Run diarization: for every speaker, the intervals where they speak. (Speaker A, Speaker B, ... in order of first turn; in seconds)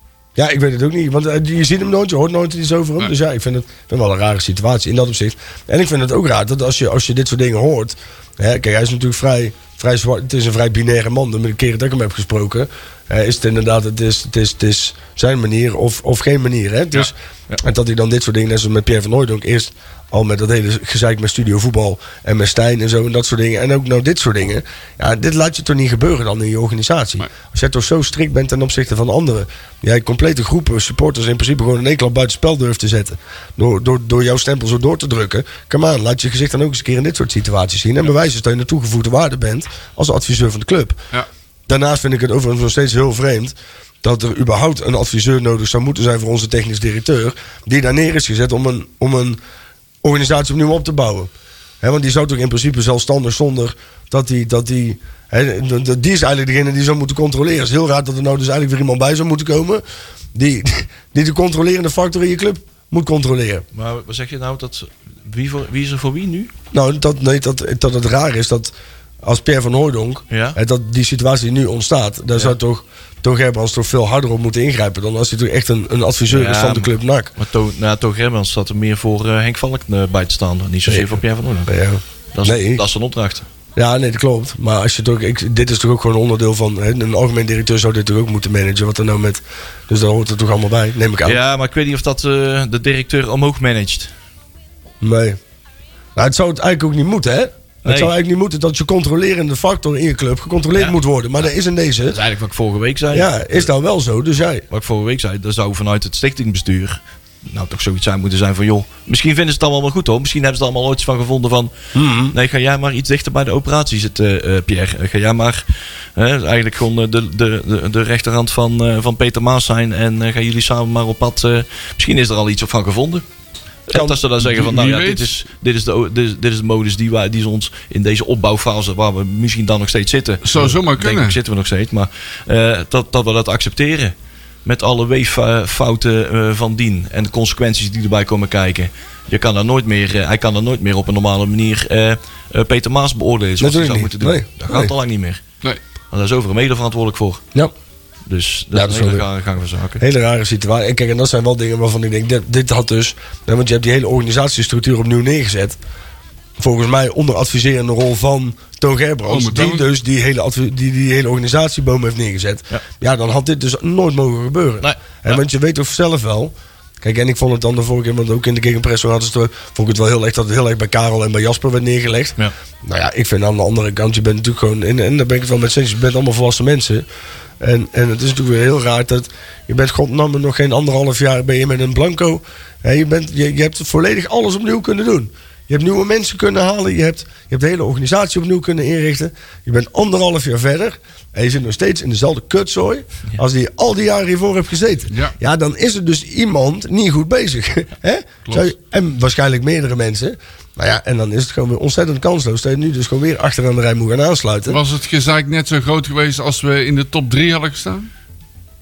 Speaker A: 0.3-41.0, 41.7-49.4, 50.0-51.3, 51.8-59.8, 60.3-63.6, 66.7-77.3, 80.9-82.8, 83.8-91.4, 95.0-95.4, 96.2-102.2, 103.1-104.6, 111.9-112.3, 123.9-124.2, 143.6-144.9, 148.7-149.2, 150.0-155.8, 156.6-177.0, 177.6-204.8
Speaker B: 63.7-66.5, 70.3-70.6, 76.3-81.7, 82.3-83.4, 91.2-94.1, 97.8-98.1, 102.0-103.7, 104.7-111.7, 112.3-123.2, 123.9-134.1, 134.6-145.4, 146.1-147.4, 148.3-150.0, 164.8-165.3
Speaker C: 124.4-125.3, 130.4-131.4, 159.3-159.8, 204.7-208.1